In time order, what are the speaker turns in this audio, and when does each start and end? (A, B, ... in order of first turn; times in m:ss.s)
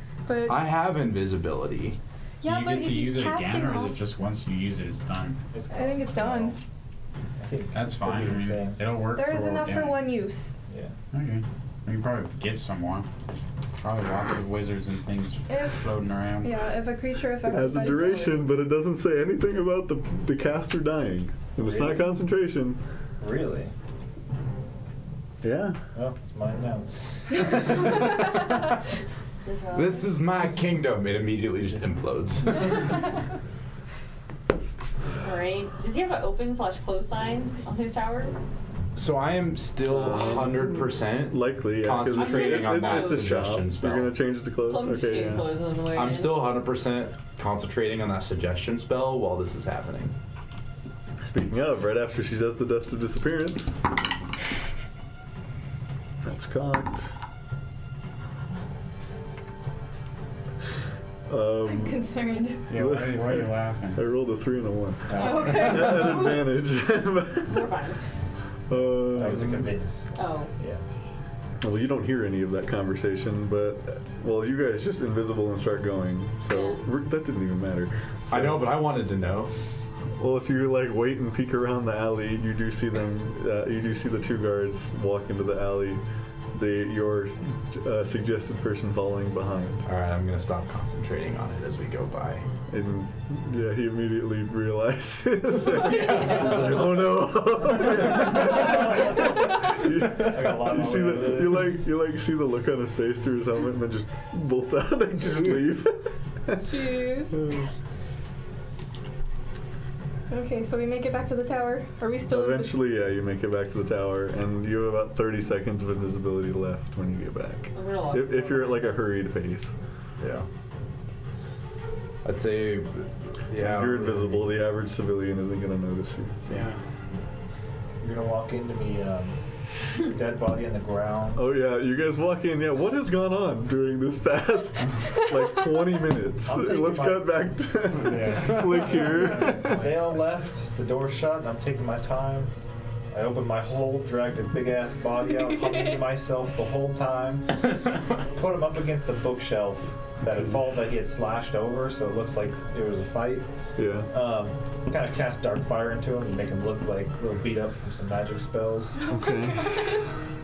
0:00.2-0:00.6 A
0:00.4-0:02.0 B
0:02.4-0:04.0 A
0:02.4-0:05.4 C
0:05.5-0:06.6 D
0:05.7-0:06.6 A
0:07.4-0:08.8 D
0:07.7-0:10.1 C
0:09.1-0:10.6 A
0:11.1-0:13.1 C
0:13.8-0:16.6 C
0:15.5-0:15.9 A
0:16.4-0:18.5 A
0:17.4-0:22.8 E
0:18.0-0:18.3 D
0:21.6-0:22.1 D
0:23.2-0:23.7 D
0:25.4-0:25.8 E
0:25.9-0:26.8 D
0:27.4-0:27.7 D
0:27.4-0:28.8 B
0:29.4-0:30.1 F
0:29.7-0:32.8 B
0:35.1-0:38.4 F
0:38.9-0:44.1 B
0:39.9-0:45.5 E
0:42.1-0:43.4 F
0:44.6-0:46.6 F
0:45.9-0:50.1 B
0:51.2-0:53.7 E
0:56.2-0:57.1 E
1:01.3-1:02.0 E
1:01.6-1:02.7 A
1:02.7-1:04.0 C
1:02.7-1:07.7 E
1:05.1-1:05.8 D
1:05.1-1:05.7 F
1:05.1-1:06.4 A
1:07.4-1:08.0 F
1:08.7-1:09.7 E
1:09.1-1:10.8 D
1:10.1-1:10.5 F
1:11.6-1:18.7 E
1:16.4-1:16.8 F
1:18.3-1:19.5 B
1:20.2-1:26.0 E
1:26.5-1:29.8 E
1:29.8-1:32.4 B
1:32.7-1:47.7 E
1:35.6-1:37.0 B
1:38.6-1:39.0 D
1:39.8-1:41.8 D
1:46.6-1:47.4 A
1:50.3-1:52.8 A
1:52.3-1:59.7 E
1:57.7-1:59.1 F
2:00.2-2:00.4 B
2:02.2-2:04.5 B
2:03.6-2:06.7 E
2:06.5-2:06.8 B
2:08.0-2:09.4 D
2:10.0-2:11.4 D
2:11.3-2:19.8 E
2:16.4-2:17.4 D
2:17.9-2:20.1 C
2:19.6-2:22.5 D
2:23.1-2:27.6 D
2:28.2-2:33.4 D
2:33.8-2:34.1 E
2:34.1-2:39.0 D
2:39.0-2:40.0 A
2:39.0-2:40.0 E